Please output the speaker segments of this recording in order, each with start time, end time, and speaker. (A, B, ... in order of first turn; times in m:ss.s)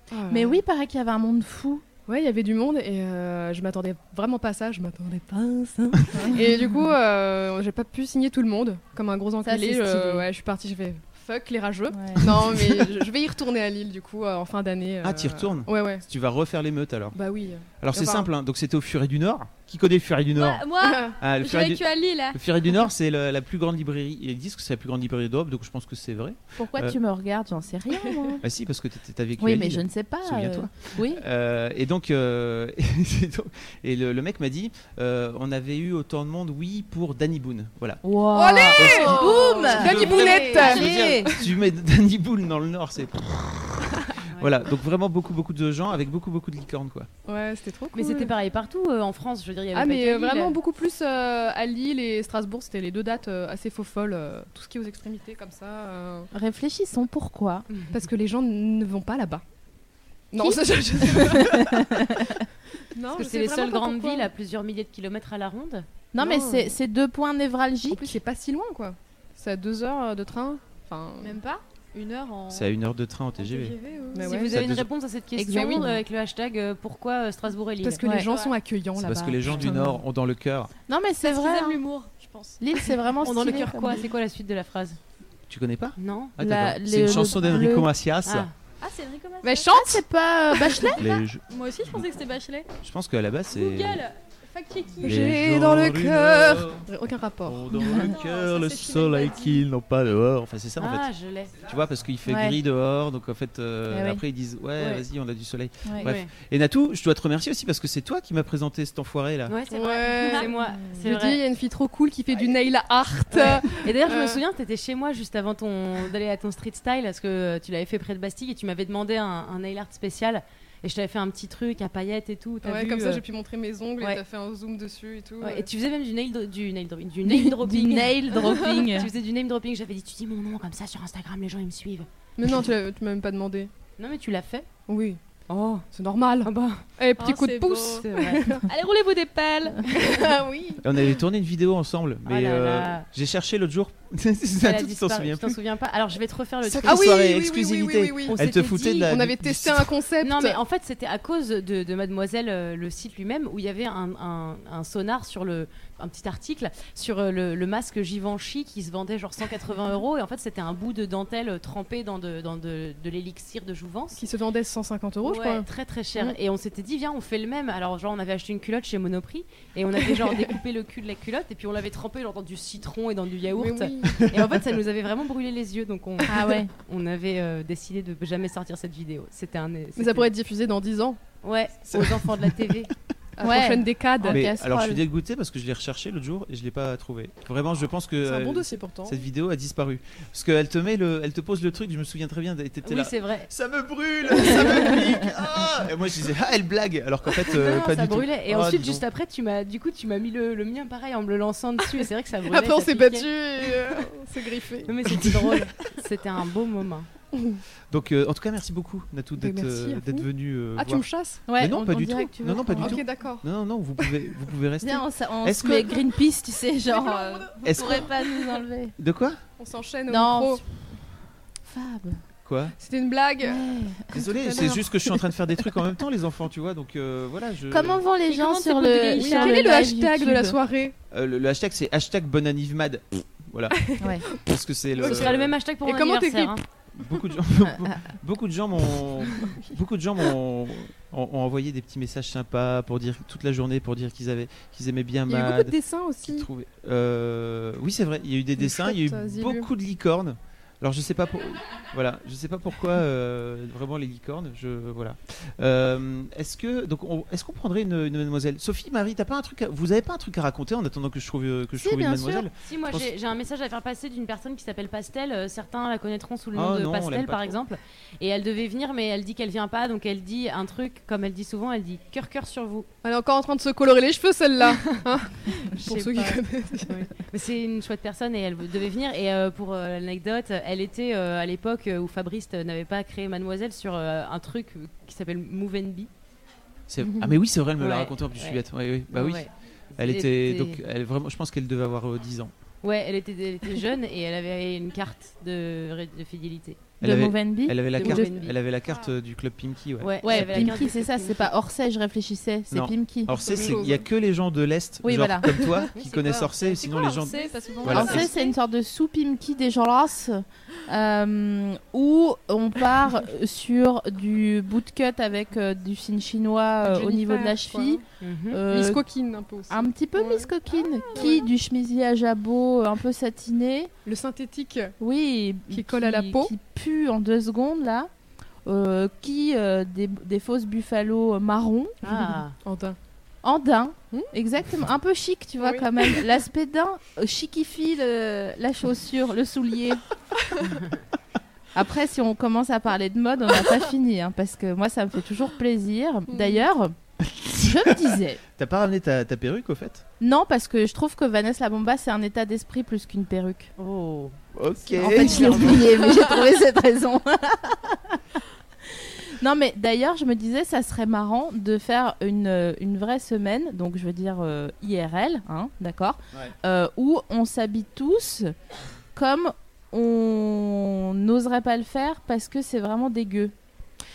0:00.1-0:00.6 A
0:00.3-0:01.8 B
0:02.1-0:16.0 A
0:09.4-0:10.3 B
0:11.9-0:12.2 B
0:15.0-0:17.2 C
0:17.1-0:18.3 A
0:17.8-0:27.0 C
0:20.3-0:22.4 D
0:20.8-0:21.2 A
0:26.6-0:28.4 B
0:28.4-0:38.0 C
0:29.4-0:31.2 B
0:38.0-0:41.3 B
0:38.3-0:41.5 A
0:38.6-0:47.1 C
0:39.9-0:40.7 E
0:47.2-0:48.3 A
0:47.9-0:50.6 E
0:49.7-0:56.3 A
0:56.3-0:57.6 B
0:57.9-0:59.4 A
1:00.3-1:02.2 A
1:00.4-1:02.3 B
1:02.9-1:04.3 A
1:03.1-1:05.8 E
1:06.1-1:08.2 B
1:06.2-1:06.8 A
1:07.9-1:11.4 A
1:11.2-1:12.7 D
1:12.5-1:13.8 C
1:13.4-1:14.4 D
1:14.1-1:14.6 A
1:14.2-1:18.0 E
1:14.5-1:14.9 C
1:15.4-1:16.0 B
1:17.8-1:20.0 A
1:18.0-1:18.3 B
1:18.2-1:18.5 D
1:19.0-1:20.7 C
1:20.9-1:21.8 B
1:21.2-1:22.6 D
1:22.6-1:24.0 B
1:23.2-1:25.0 E
1:25.5-1:28.5 C
1:26.0-1:26.4 E
1:26.4-1:27.9 B
1:28.2-1:28.5 E
1:28.8-1:29.7 D
1:29.4-1:30.0 A
1:29.6-1:31.0 B
1:30.6-1:31.0 A
1:31.0-1:31.4 C
1:31.5-1:32.7 D
1:32.8-1:34.0 C
1:33.5-1:35.3 D
1:35.0-1:38.0 A
1:35.0-1:36.9 C
1:37.4-1:49.5 C
1:37.8-1:39.6 D
1:40.8-1:41.6 E
1:42.2-1:42.6 B
1:43.9-1:44.2 B
1:44.8-1:45.0 E
1:46.0-1:46.3 E
1:49.5-1:51.4 E
1:49.7-1:54.4 A
1:53.3-2:03.2 E
2:02.6-2:05.7 A
2:05.4-2:12.1 E
2:07.2-2:09.1 B
2:12.4-2:13.7 A
2:14.0-2:14.7 E
2:14.9-2:15.2 A
2:15.5-2:15.8 E
2:15.9-2:18.6 A
2:16.4-2:16.8 E
2:17.2-2:18.1 D
2:18.0-2:18.5 E
2:18.7-2:20.2 D
2:19.9-2:20.8 A
2:20.8-2:25.6 C
2:22.2-2:23.0 E
2:24.6-2:27.1 E
2:26.7-2:30.6 A
2:26.8-2:29.9 C
2:28.3-2:29.0 E
2:30.2-2:44.2 E
2:44.2-2:46.4 A
2:45.2-3:00.3 E
2:53.6-2:54.4 A
2:56.3-2:56.7 B
3:00.0-3:01.2 A
3:01.4-3:02.9 E
3:01.9-3:02.9 C
3:03.4-3:04.5 A
3:03.4-3:05.0 B
3:04.2-3:19.0 C
3:08.2-3:09.2 A
3:12.8-3:13.5 E
3:17.5-3:23.6 E
3:22.0-3:25.9 A
3:24.8-3:27.1 E
3:27.3-3:27.6 A
3:27.9-3:36.0 C
3:29.4-3:31.4 A
3:31.5-3:33.0 B
3:32.8-3:33.4 A
3:34.8-3:38.9 B
3:36.9-3:38.6 A
3:37.6-3:38.1 C
3:39.0-3:39.4 C
3:39.6-3:40.6 A
3:40.1-3:41.0 B
3:41.6-3:42.2 B
3:42.4-3:42.7 C
3:42.8-3:43.6 A
3:43.4-3:44.7 B
3:44.1-3:48.0 C
3:44.5-3:44.8 A
3:47.7-3:50.6 B
3:48.3-3:49.8 D
3:49.2-3:50.9 A
3:51.1-3:55.5 C
3:55.0-3:56.6 A
3:55.0-3:56.6 E
3:56.9-4:23.1 C
4:05.3-4:06.5 A
4:08.6-4:09.7 A
4:21.8-4:22.4 B
4:22.6-4:32.9 E
4:26.5-4:27.6 C
4:33.0-4:37.1 A
4:35.8-4:46.1 E
4:46.9-4:52.5 C
4:47.8-4:50.8 E
4:52.8-4:56.9 E
4:57.0-5:00.8 C
4:57.0-4:58.3 B
4:57.9-4:58.5 E
5:00.0-5:01.5 E
5:00.2-5:03.3 B
5:02.7-5:08.3 C
5:03.4-5:04.0 A
5:05.0-5:05.6 B
5:06.0-5:06.4 E
5:06.0-5:08.6 D
5:07.9-5:19.0 B
5:16.8-5:18.0 A
5:18.2-5:18.6 E
5:18.7-5:20.5 A
5:19.7-5:23.9 B
5:21.1-5:21.5 A
5:24.0-5:24.9 A
5:25.0-5:28.1 B
5:25.7-5:26.5 A
5:28.6-5:32.0 B
5:32.0-5:32.6 E
5:32.0-5:33.0 A
5:33.4-5:40.0 B
5:35.6-5:36.2 A
5:41.7-5:46.9 B
5:46.3-5:46.6 A
5:47.2-5:47.9 C
5:47.6-5:48.4 B
5:48.6-5:50.0 C
5:50.2-5:53.7 B
5:53.8-5:54.4 E
5:54.5-5:55.9 C
5:54.9-5:58.2 B
5:58.9-6:08.5 B
6:09.1-6:13.5 B